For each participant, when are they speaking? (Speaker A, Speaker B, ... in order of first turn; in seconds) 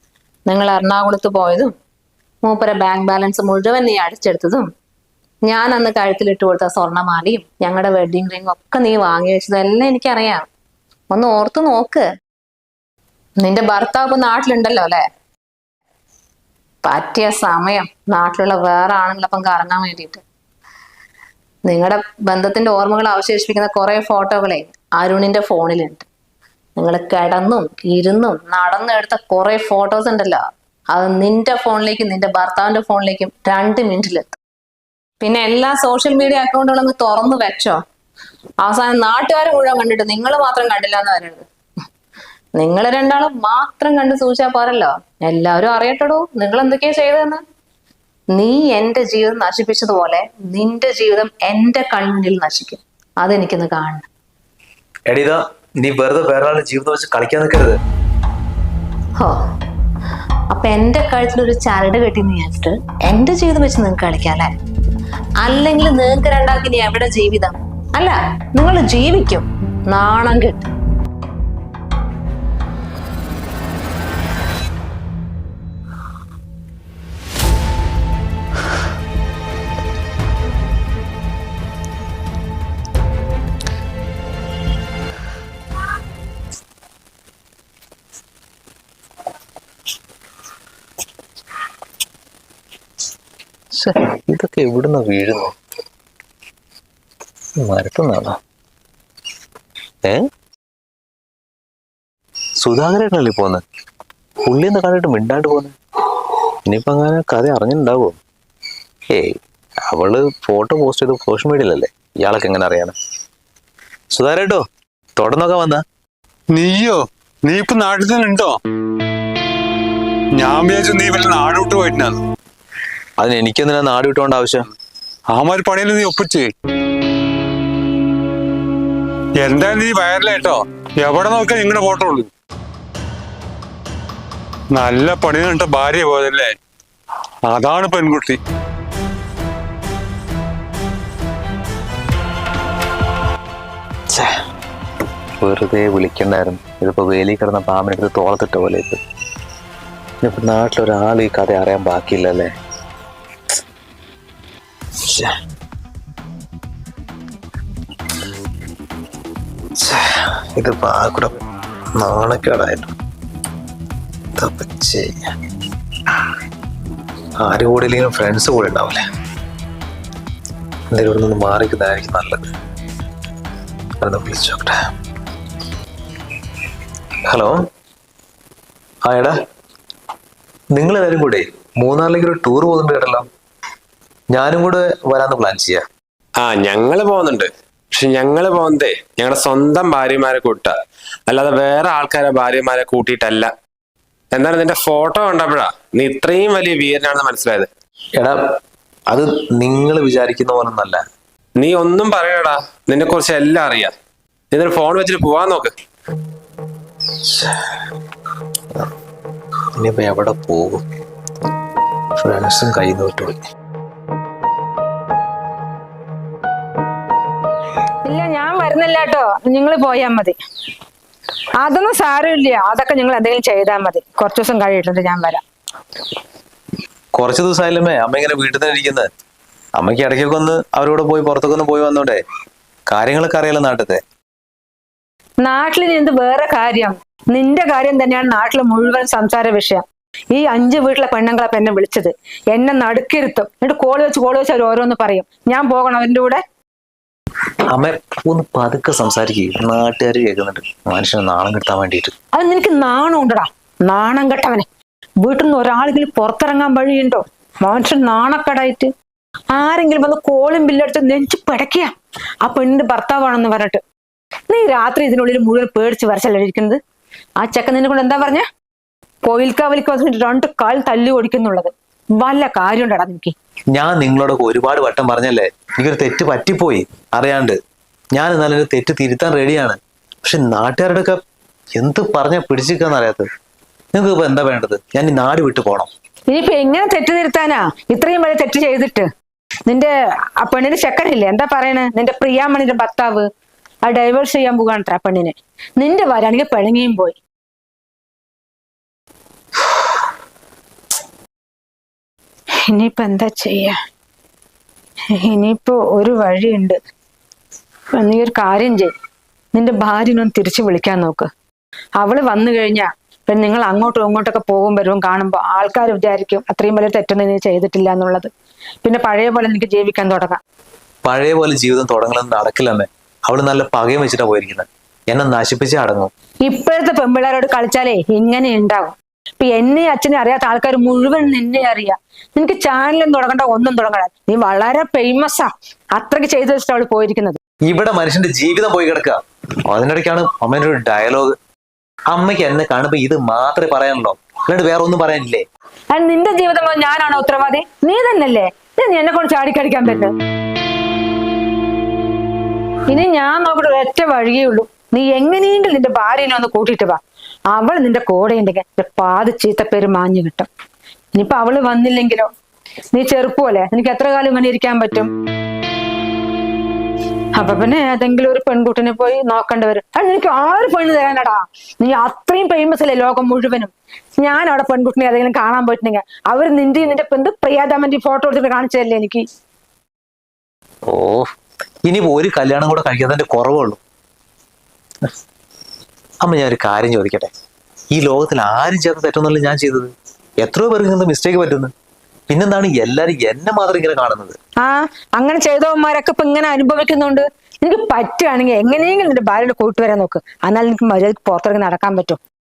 Speaker A: 0.5-1.7, 2.4-4.7, 5.5-10.5, 11.1-12.0, 13.4-15.0, 16.8-20.2, 21.6-26.1, 26.8-34.3, 35.2-37.8, 38.6-41.5, 42.6-47.4, 48.3-54.1, 60.5-64.5, 65.4-70.7
Speaker B: 55.1-57.8, 93.7-95.5, 97.6-98.4, 102.6-103.6, 104.4-108.2, 109.1-112.9, 114.1-114.6, 115.2-115.8, 123.2-124.7, 145.4-149.0, 150.2-152.5, 155.0-155.3, 159.8-161.4, 162.0-162.9, 164.4-165.2, 167.4-169.0, 170.9-172.4, 174.0-174.7, 177.3-177.6, 179.0-179.4, 180.7-183.2, 184.3-185.8, 199.1-201.0, 207.2-207.5, 209.8-210.8, 212.2-213.4, 227.1-229.1, 229.8-232.2, 232.9-234.0, 247.7-252.1, 273.7-277.6, 278.1-281.2, 281.8-283.3, 283.9-285.9, 321.0-326.1, 337.7-341.3, 342.1-345.4, 380.9-381.3, 381.9-383.8, 386.2-387.3, 387.9-391.7, 392.3-394.4
Speaker C: 116.5-118.6, 120.4-122.2, 125.3-126.5, 129.4-132.3, 134.7-136.5, 137.4-138.4
Speaker D: 186.4-190.7, 191.3-193.5, 194.3-197.7, 201.6-203.9, 204.5-205.7
Speaker E: 218.0-220.3, 221.6-225.4, 235.4-246.4, 252.3-254.7, 255.2-258.9, 259.5-261.9, 262.4-263.8, 264.5-266.8, 267.4-268.4, 269.2-273.3, 286.3-289.1, 289.6-293.3, 293.8-297.2, 302.7-303.8, 305.1-306.8, 308.0-308.9, 309.5-311.3, 312.0-318.3, 318.8-320.4, 326.4-337.4, 345.9-350.1, 352.9-357.0, 357.5-360.5, 361.1-362.3, 362.9-365.1, 367.3-379.2, 394.6-402.2